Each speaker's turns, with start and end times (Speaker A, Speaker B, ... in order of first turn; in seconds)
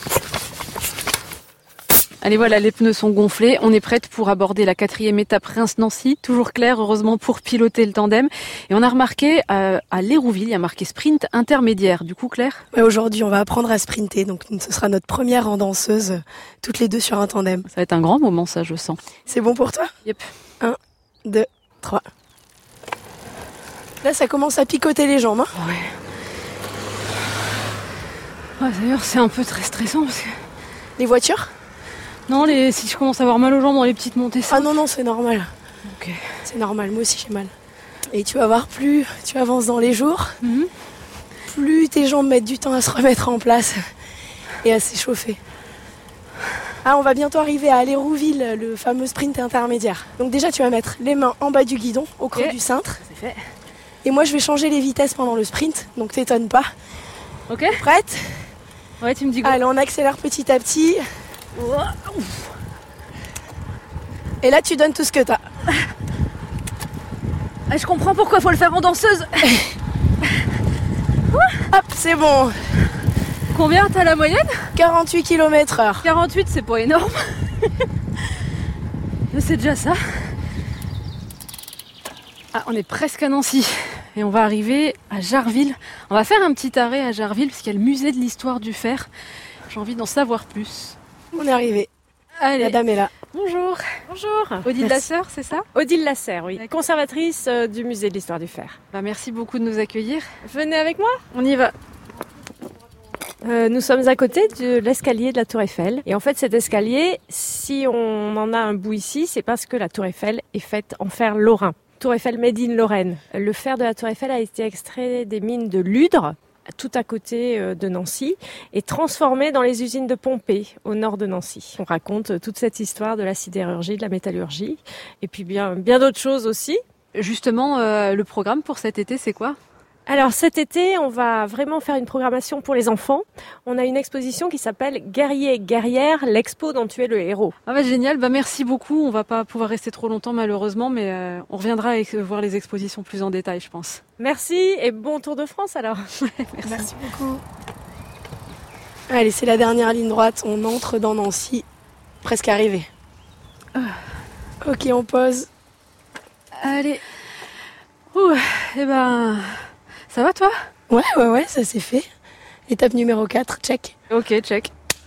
Speaker A: 2.2-12.6, 17.7-19.0, 25.6-25.9, 28.6-30.4, 32.3-34.7, 35.9-36.2, 40.4-40.7, 53.1-53.4, 57.5-57.8, 59.0-59.6, 61.5-62.5, 67.7-69.6, 73.5-74.7, 76.0-77.7, 79.3-80.0, 82.5-89.1, 89.7-91.0, 92.4-93.8, 94.6-95.7, 98.9-100.2, 101.3-101.7, 127.1-129.6, 137.7-144.0, 146.2-146.9, 156.6-157.0, 158.1-159.5, 160.1-160.5, 164.1-164.7
Speaker B: 12.7-17.6, 19.3-19.9, 20.6-22.1, 24.0-25.5, 31.0-31.5, 34.5-35.5, 36.5-37.5, 38.1-40.4, 41.5-43.8, 44.6-45.4, 46.8-53.0, 54.0-56.7, 57.7-58.4, 59.4-61.0, 64.4-65.4, 71.7-72.5, 74.8-76.1, 91.3-91.9, 92.6-93.1, 146.7-147.4, 149.1-151.7, 152.2-152.9, 154.6-155.5, 160.9-162.1, 162.7-163.9
Speaker C: 94.1-94.7, 95.7-98.8, 100.5-101.2, 103.4-126.8, 130.1-137.5, 144.2-146.1